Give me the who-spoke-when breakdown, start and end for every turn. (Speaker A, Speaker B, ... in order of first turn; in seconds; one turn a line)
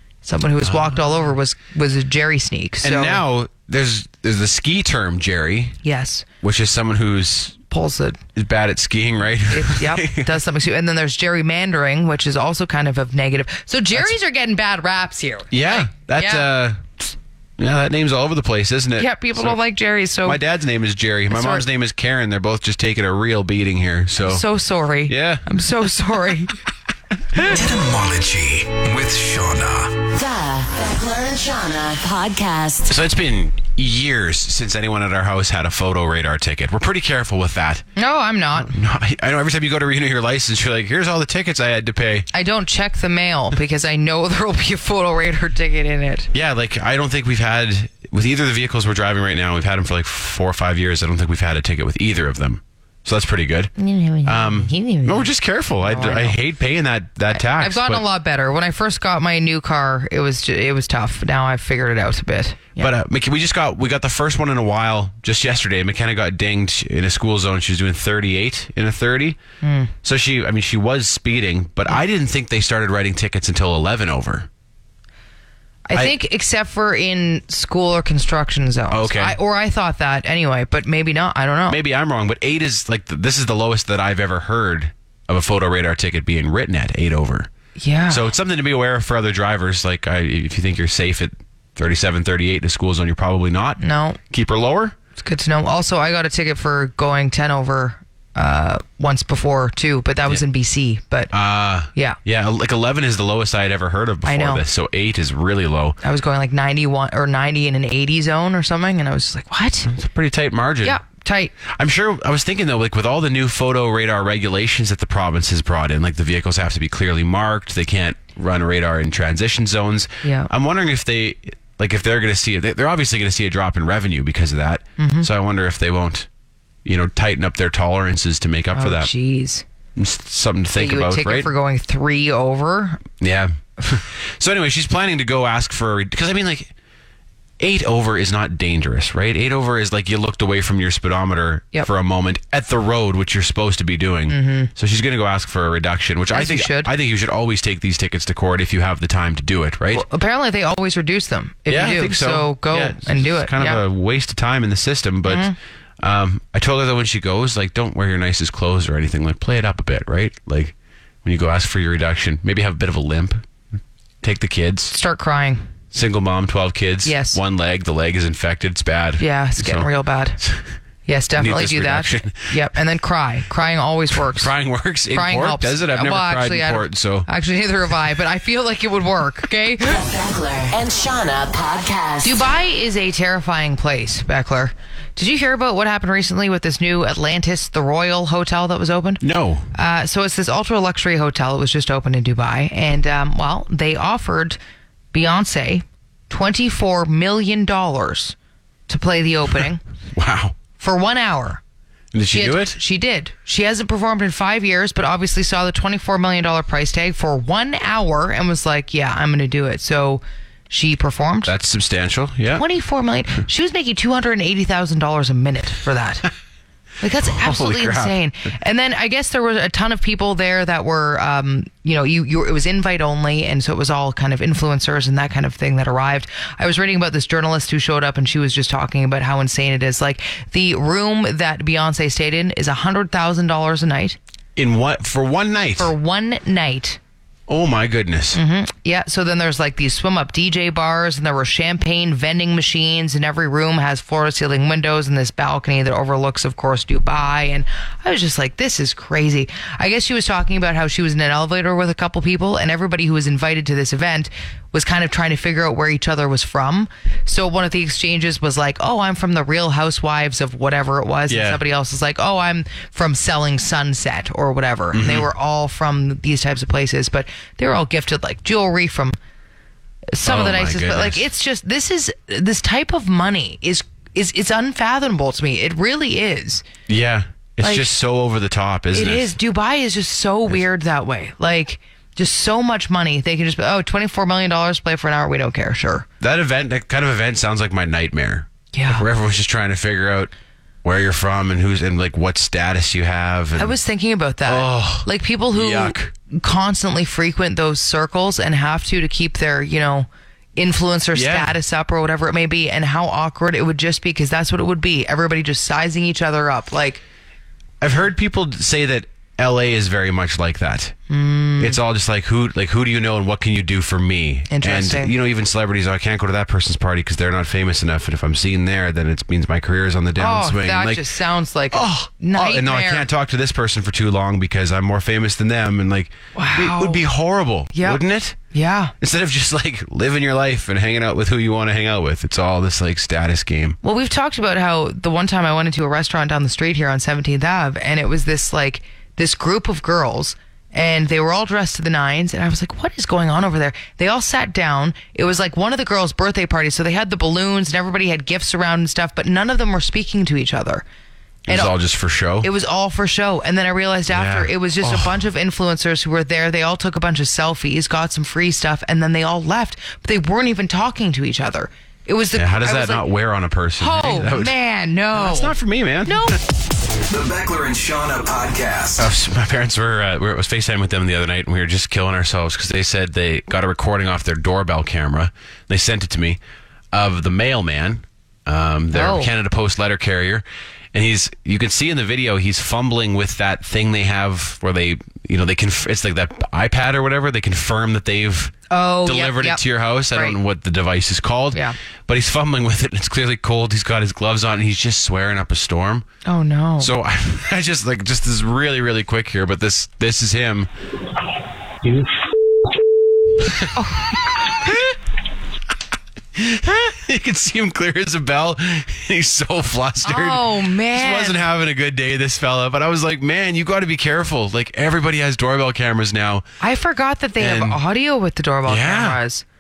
Speaker A: 0.2-3.2
Speaker B: 0.6-1.0
Speaker B: 2.8-5.8
Speaker A: 5.8-6.3
Speaker B: 6.4-7.6
Speaker A: 7.7-8.2
Speaker B: 8.3-10.3
Speaker A: 9.5-16.5
Speaker B: 15.5-19.6
Speaker A: 19.0-20.4
Speaker B: 20.2-24.5
Speaker A: 21.3-21.6
Speaker A: 24.3-26.6
Speaker B: 25.1-26.1
Speaker C: 27.4-30.0
Speaker D: 30.1-33.0
Speaker B: 32.9-37.9
Speaker A: 38.0-38.8
Speaker B: 38.6-42.3
Speaker A: 42.3-46.3
Speaker B: 46.3-53.7
Speaker A: 53.8-55.3
Speaker B: 54.2-58.0
Speaker A: 55.8-56.4
Speaker A: 57.3-62.9
Speaker B: 62.8-69.4
Speaker A: 69.6-69.9
Speaker B: 70.0-74.5
Speaker A: 75.9-81.8
Speaker B: 78.9-79.4
Speaker B: 81.7-87.5
Speaker A: 87.8-88.3
Speaker B: 88.1-95.0
Speaker A: 93.8-94.2
Speaker A: 95.2-101.3
Speaker B: 101.3-106.0
Speaker A: 101.9-102.2
Speaker A: 104.2-104.6
Speaker A: 106.0-109.9
Speaker B: 109.9-111.0
Speaker A: 110.8-111.5
Speaker B: 111.7-126.3
Speaker A: 120.2-120.5
Speaker A: 125.0-125.3
Speaker B: 126.8-129.1
Speaker A: 128.7-129.7
Speaker B: 130.0-131.5
Speaker A: 130.8-133.0
Speaker B: 133.2-136.7
Speaker B: 137.6-150.1
Speaker A: 144.3-144.7
Speaker A: 146.3-146.9
Speaker A: 149.9-153.8
Speaker B: 151.7-163.4
Speaker A: 155.3-155.6
Speaker B: 164.2-165.0
Speaker A: 164.9-165.7
Speaker B: 165.9-169.9
Speaker A: 167.1-167.4
Speaker A: 169.2-170.4
Speaker A: 171.1-174.5
Speaker B: 171.4-172.6
Speaker B: 174.3-177.3
Speaker A: 175.1-180.0
Speaker D: 179.8-182.4
Speaker A: 182.2-189.2
Speaker B: 189.2-189.7
Speaker A: 189.7-194.6
Speaker A: 195.1-198.4
Speaker A: 198.9-199.8
Speaker B: 200.2-200.6
Speaker A: 200.8-201.6
Speaker B: 202.1-202.8
Speaker A: 202.3-211.5
Speaker B: 211.5-212.6
Speaker A: 212.5-216.3
Speaker A: 217.0-234.2
Speaker B: 217.2-218.2
Speaker B: 234.6-235.9
Speaker A: 235.8-237.0
Speaker B: 237.5-238.4
Speaker A: 238.3-269.2
Speaker B: 261.3-261.6
Speaker B: 264.9-265.3
Speaker A: 270.1-276.6
Speaker B: 270.2-271.3
Speaker B: 276.9-279.4
Speaker A: 277.6-277.9
Speaker A: 278.9-286.1
Speaker B: 286.2-290.3
Speaker A: 288.7-289.1
Speaker B: 290.8-293.8
Speaker A: 293.6-307.0
Speaker B: 294.4-296.1
Speaker B: 301.1-301.6
Speaker B: 307.8-310.9
Speaker A: 311.1-311.8
Speaker B: 311.6-321.1
Speaker A: 314.5-315.1
Speaker A: 320.2-323.1
Speaker B: 321.7-328.4
Speaker A: 326.4-327.0
Speaker A: 327.7-328.9
Speaker B: 329.0-333.8
Speaker A: 333.8-350.9
Speaker B: 351.5-352.5
Speaker A: 351.5-351.7
Speaker A: 352.4-363.1
Speaker B: 354.1-355.2
Speaker B: 362.4-364.6
Speaker A: 363.8-365.6
Speaker B: 365.1-366.4
Speaker A: 366.1-366.4
Speaker C: 367.1-369.1
Speaker B: 369.0-376.4
Speaker B: 376.9-396.1
Speaker A: 378.9-379.3
Speaker A: 388.7-390.4
Speaker A: 396.2-396.9
Speaker B: 396.8-400.7
Speaker A: 403.7-404.1
Speaker B: 404.6-404.9
Speaker B: 406.4-416.4
Speaker A: 410.0-411.5
Speaker A: 416.6-419.4
Speaker B: 417.4-417.8
Speaker B: 418.7-419.2